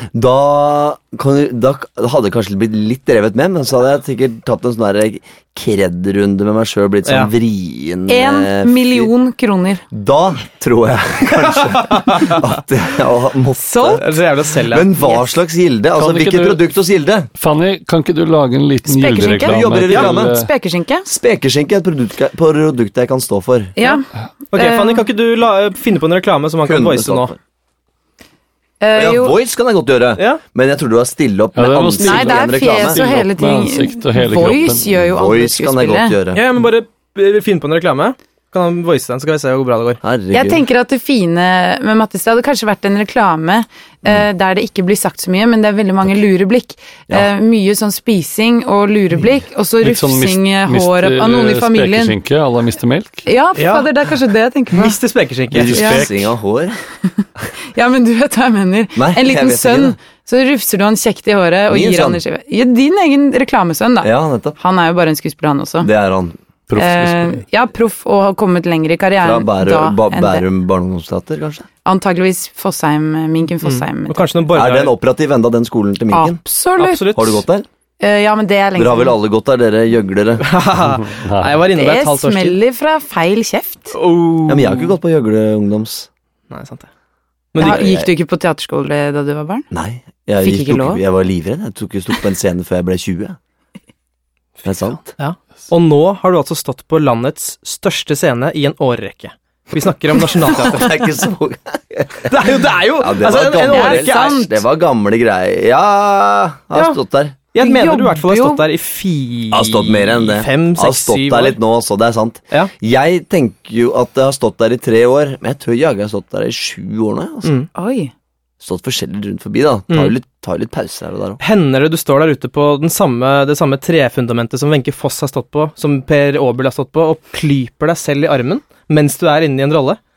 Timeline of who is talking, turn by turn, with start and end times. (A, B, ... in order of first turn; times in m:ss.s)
0:00.1-0:09.1 A
0:07.1-0:07.3 B
0:08.1-0:09.8 C
0:09.9-0:17.3 A
0:11.9-0:12.4 B
0:13.6-0:14.0 C
0:13.9-0:14.9 B
0:15.0-0:15.3 C
0:16.0-0:16.6 D
0:17.4-0:20.5 D
0:18.8-0:21.1 C
0:19.4-0:20.4 A
0:21.1-0:23.8 A
0:23.8-0:25.0 C
0:24.5-0:27.3 B
0:26.6-0:27.4 A
0:28.8-0:29.4 C
0:28.9-0:33.1 A
0:30.2-0:30.4 B
0:31.6-0:35.1 D
0:32.0-0:36.2 C
0:35.1-0:36.4 A
0:36.3-0:40.0 B
0:40.0-0:40.6 A
0:40.3-0:52.2 C
0:49.8-0:53.3 D
0:53.3-0:55.0 C
0:53.6-0:53.9 B
0:54.7-0:55.8 B
0:55.5-0:56.8 A
0:55.6-0:56.3 D
0:55.8-0:56.1 C
0:57.7-1:05.9 C
0:59.0-1:00.0 A
1:01.7-1:02.2 A
1:04.0-1:04.6 A
1:05.8-1:06.4 A
1:06.7-1:07.4 D
1:06.8-1:10.4 C
1:09.2-1:11.7 A
1:11.8-1:14.2 C
1:13.6-1:14.9 B
1:14.5-1:16.4 A
1:16.1-1:17.1 C
1:16.8-1:17.4 B
1:17.1-1:17.7 A
1:18.0-1:19.2 C
1:18.8-1:20.5 A
1:20.4-1:22.6 B
1:21.1-1:21.6 D
1:21.7-1:24.0 C
1:23.9-1:25.0 B
1:24.5-1:26.1 A
1:26.5-1:26.9 B
1:27.5-1:27.9 B
1:27.6-1:28.1 A
1:27.6-1:29.7 C
1:29.7-1:33.4 A
1:30.4-1:31.0 C
1:34.6-1:35.1 A
1:35.0-1:41.0 B
1:40.4-1:47.4 A
1:42.3-1:44.4 B
1:43.7-1:44.6 C
1:47.5-1:51.6 B
1:47.6-1:48.6 C
1:49.5-1:57.6 A
1:57.4-1:57.7 B
1:57.8-1:58.1 C
1:58.6-2:01.4 A
2:01.4-2:10.0 B